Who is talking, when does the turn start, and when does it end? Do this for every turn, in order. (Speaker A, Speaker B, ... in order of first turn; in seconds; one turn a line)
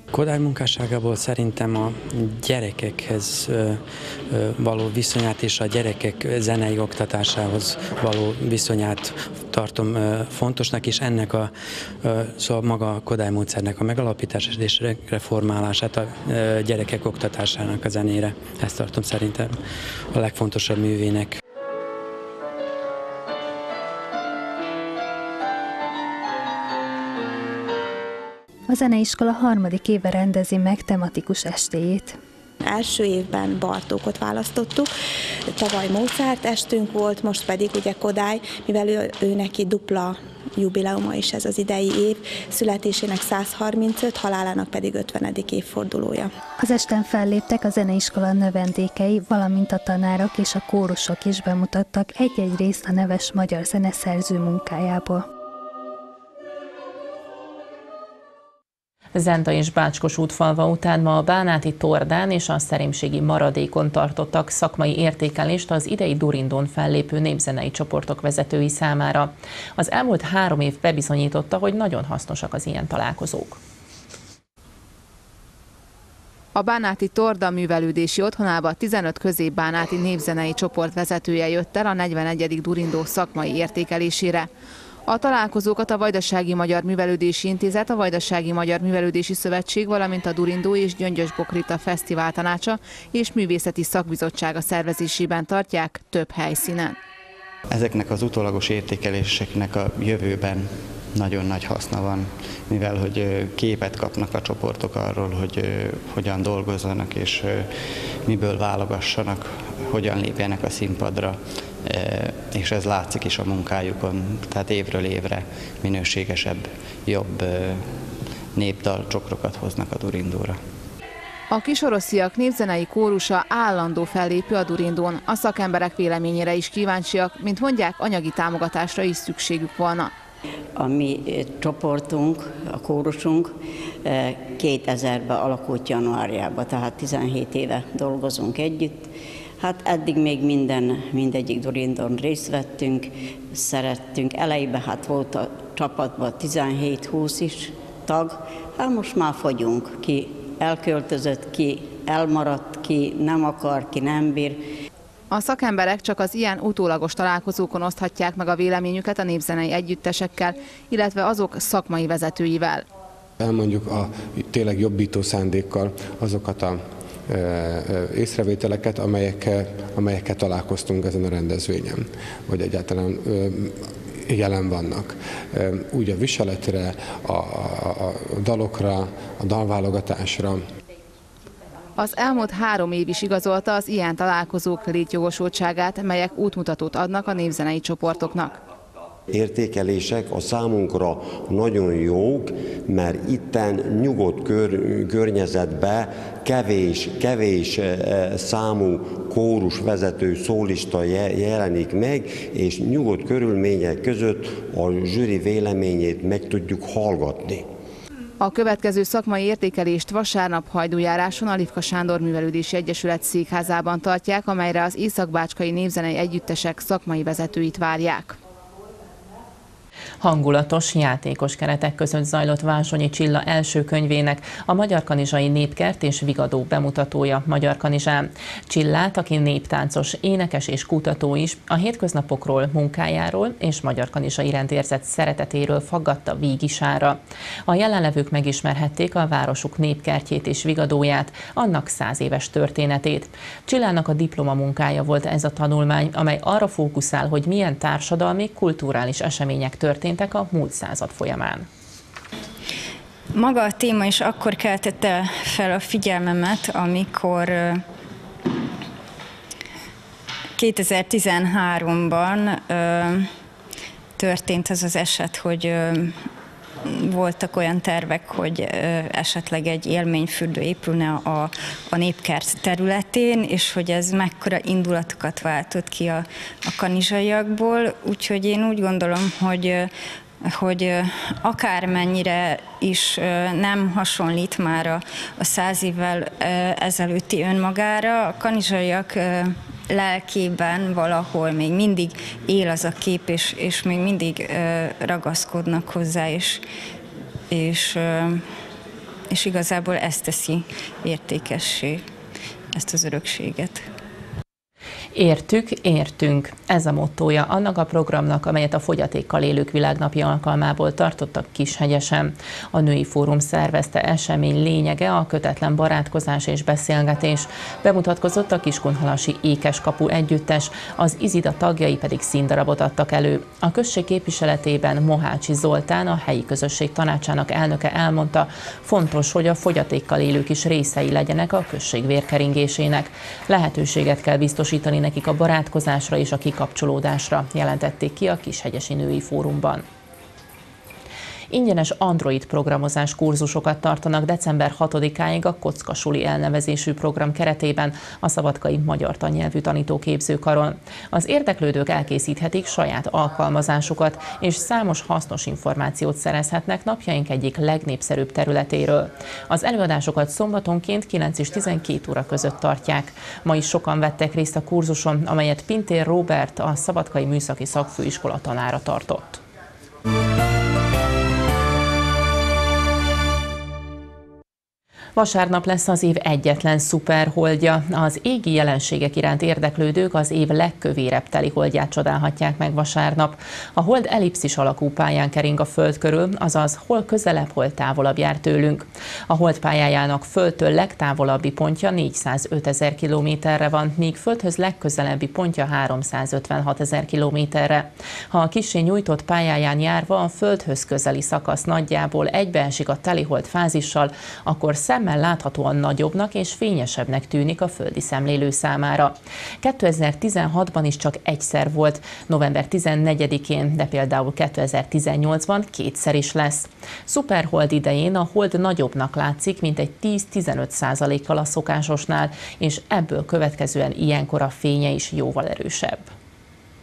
Speaker A: 0.1-21.4
Speaker B: 28.7-32.1
Speaker C: 32.6-34.9
Speaker C: 35.5-46.3
Speaker B: 46.6-55.2
Speaker D: 59.1-73.6
Speaker E: 76.5-84.5
Speaker E: 85.1-97.0
Speaker F: 97.7-120.6
Speaker E: 121.5-130.1
Speaker G: 130.8-154.6
Speaker E: 155.3-162.8
Speaker H: 163.4-180.6
Speaker E: 182.0-188.6
Speaker I: 189.3-207.6
Speaker E: 208.4-218.4
Speaker D: 220.2-251.7
Speaker J: 253.3-257.8
Speaker J: 260.6-263.3
Speaker J: 264.2-266.2
Speaker J: 266.9-279.9
Speaker J: 280.4-296.6
Speaker J: 297.5-298.4
Speaker J: 299.3-302.0
Speaker J: 302.7-303.9
Speaker D: 305.1-339.8
Speaker D: 341.5-369.4
Speaker D: 375.1-426.1